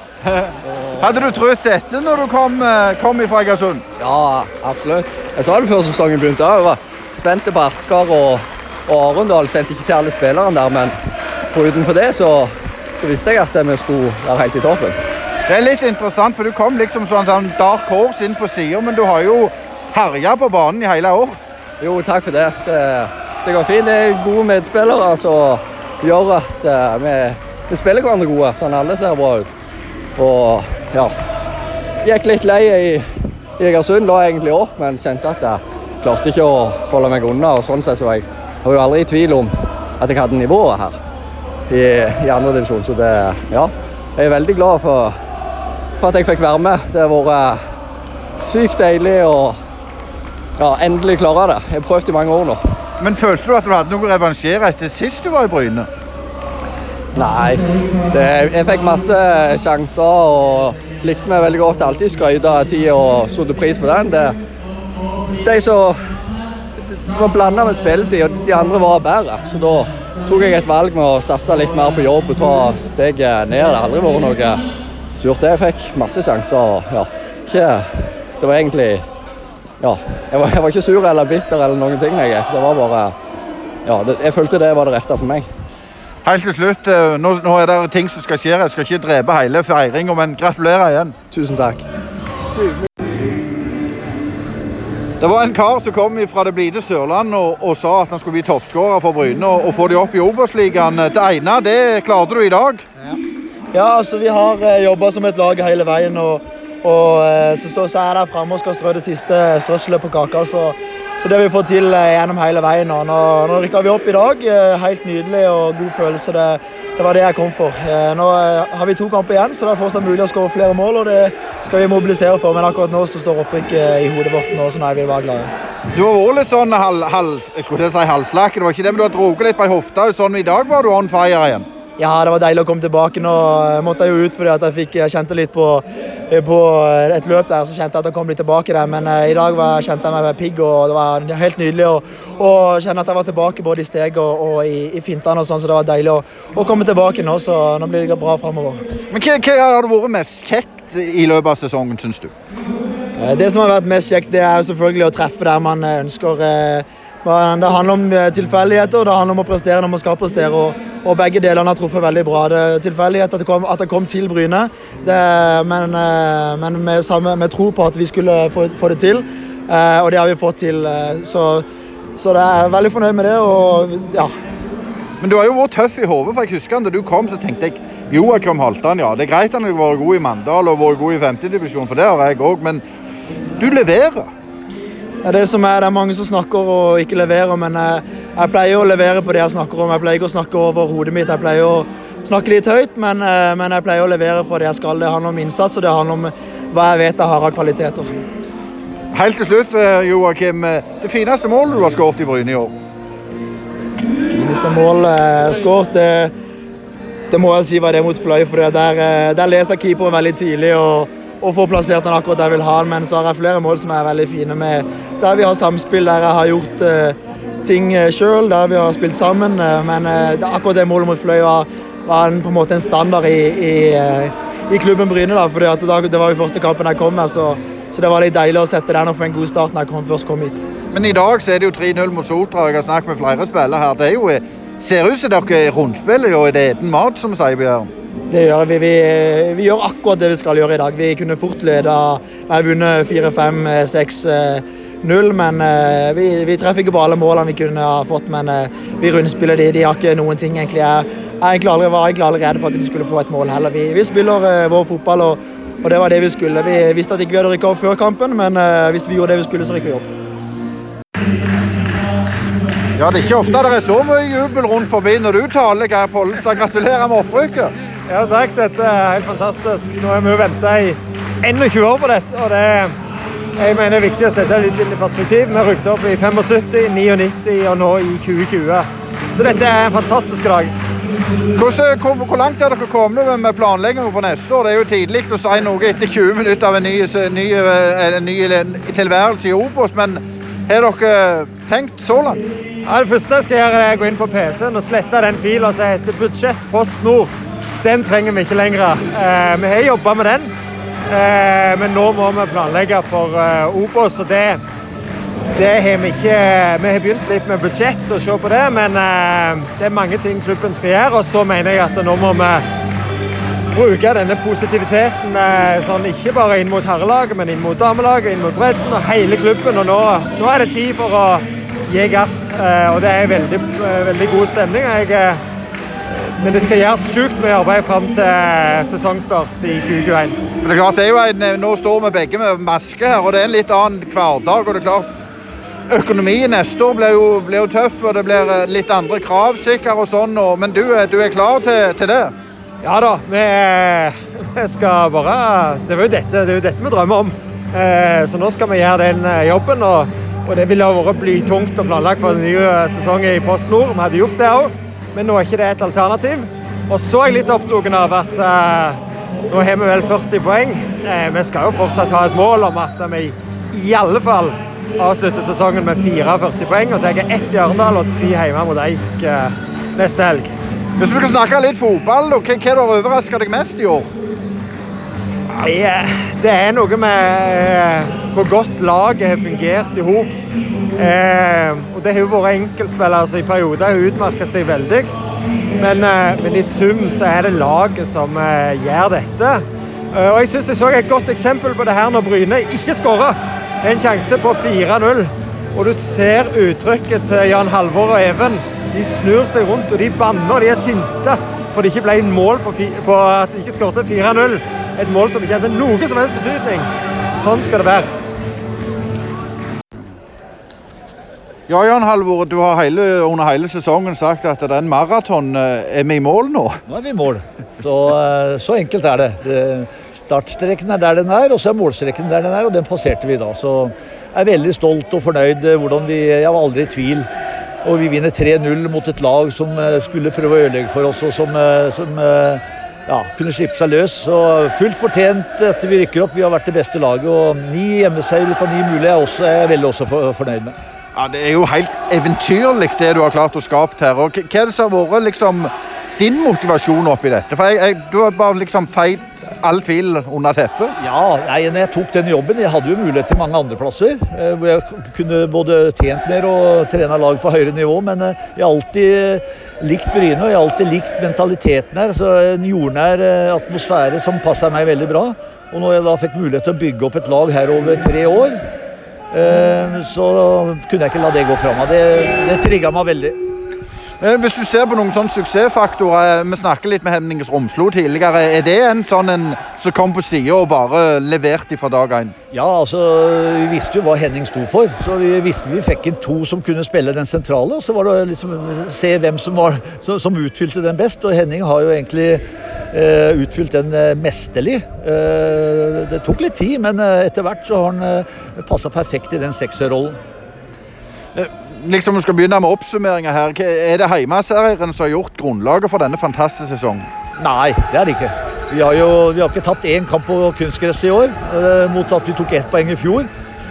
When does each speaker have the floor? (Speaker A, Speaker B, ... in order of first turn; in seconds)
Speaker A: 1.0-3.8, 15.5-21.4, 53.0-55.9, 86.2-91.1, 95.2-102.8, 125.9-131.7, 149.1-152.3, 175.2-182.8, 183.6-184.3, 199.1-202.7, 230.9-237.9, 263.0-267.7, 281.6-292.4, 330.6-335.1, 335.9-342.3, 371.0-374.1, 411.7-416.8, 441.1-450.9, 474.2-482.3, 501.4-507.1
Speaker B: 4.0-10.9, 11.5-15.0, 21.8-29.5, 30.2-31.1, 32.0-41.0, 41.7-45.2, 46.0-47.6, 48.4-49.6, 50.6-52.6, 57.1-64.4, 65.4-66.0, 66.8-74.6, 75.2-79.0, 79.8-83.1, 83.8-85.5, 91.3-91.8
Speaker C: 103.7-125.5, 132.0-148.8, 153.2-171.6, 172.2-174.3, 185.2-198.1, 204.3-206.3, 207.3-230.7, 238.3-260.1
Speaker D: 268.1-272.9, 273.6-280.7, 292.8-300.5, 301.1-304.6, 305.5-312.6, 313.7-325.4, 326.1-330.4, 342.8-370.5, 375.5-380.3, 381.0-385.1, 385.8-408.1
Speaker E: 416.9-427.3, 427.8-440.8, 451.0-468.6, 469.3-473.4, 482.5-500.2, 507.4-513.3